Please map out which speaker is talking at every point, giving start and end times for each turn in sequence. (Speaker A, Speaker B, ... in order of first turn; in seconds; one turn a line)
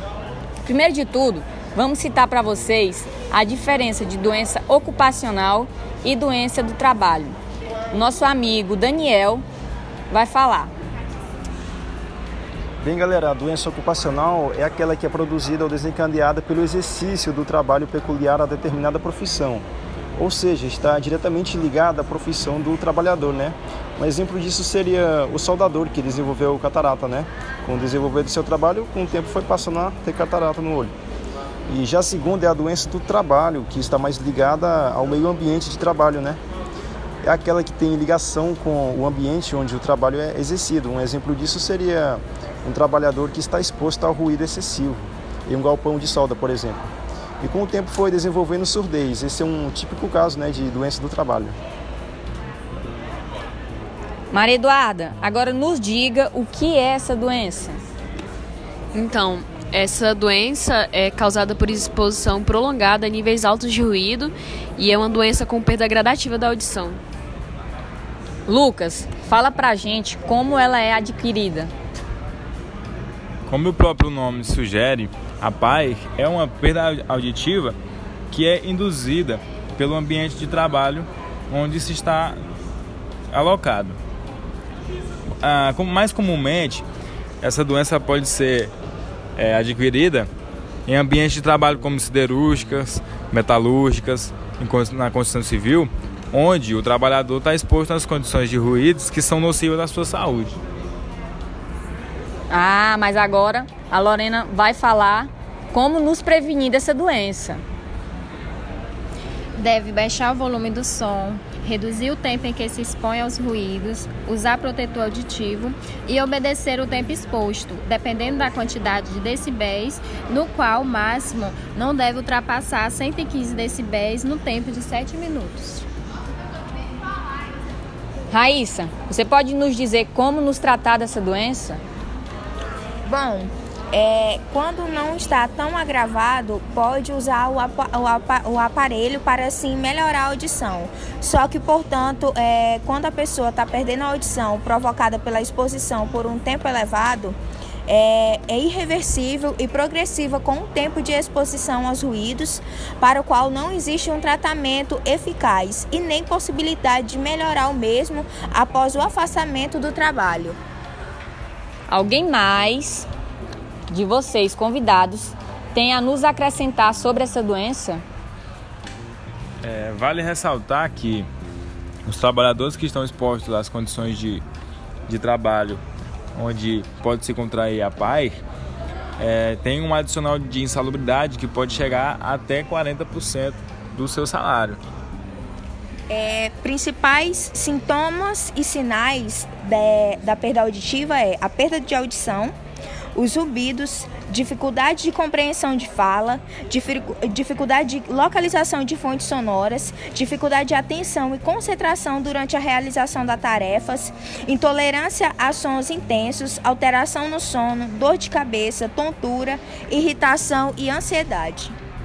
Speaker A: 0.6-7.4
Speaker A: 7.9-9.4
Speaker A: 10.1-10.7
Speaker B: 12.8-19.6
Speaker B: 20.2-30.9
Speaker B: 31.7-36.4
Speaker B: 37.2-46.8
Speaker B: 47.4-51.6
Speaker A: 54.3-57.8
Speaker C: 58.9-67.0
Speaker A: 68.5-71.7
Speaker D: 73.5-77.8
Speaker D: 78.3-82.4
Speaker D: 83.3-84.0
Speaker D: 85.4-86.8
Speaker D: 87.4-88.7
Speaker D: 89.4-90.3
Speaker D: 90.9-100.6
Speaker A: 102.5-107.6
Speaker E: 109.6-125.8
Speaker A: 128.3-131.8
Speaker F: 133.1-160.6
Speaker A: 161.9-163.1
Speaker A: 163.9-168.0
Speaker D: 169.6-171.3
Speaker D: 172.1-174.4
Speaker D: 175.1-175.8
Speaker D: 176.3-178.3
Speaker D: 179.2-184.8
Speaker F: 186.1-192.5
Speaker F: 193.2-211.8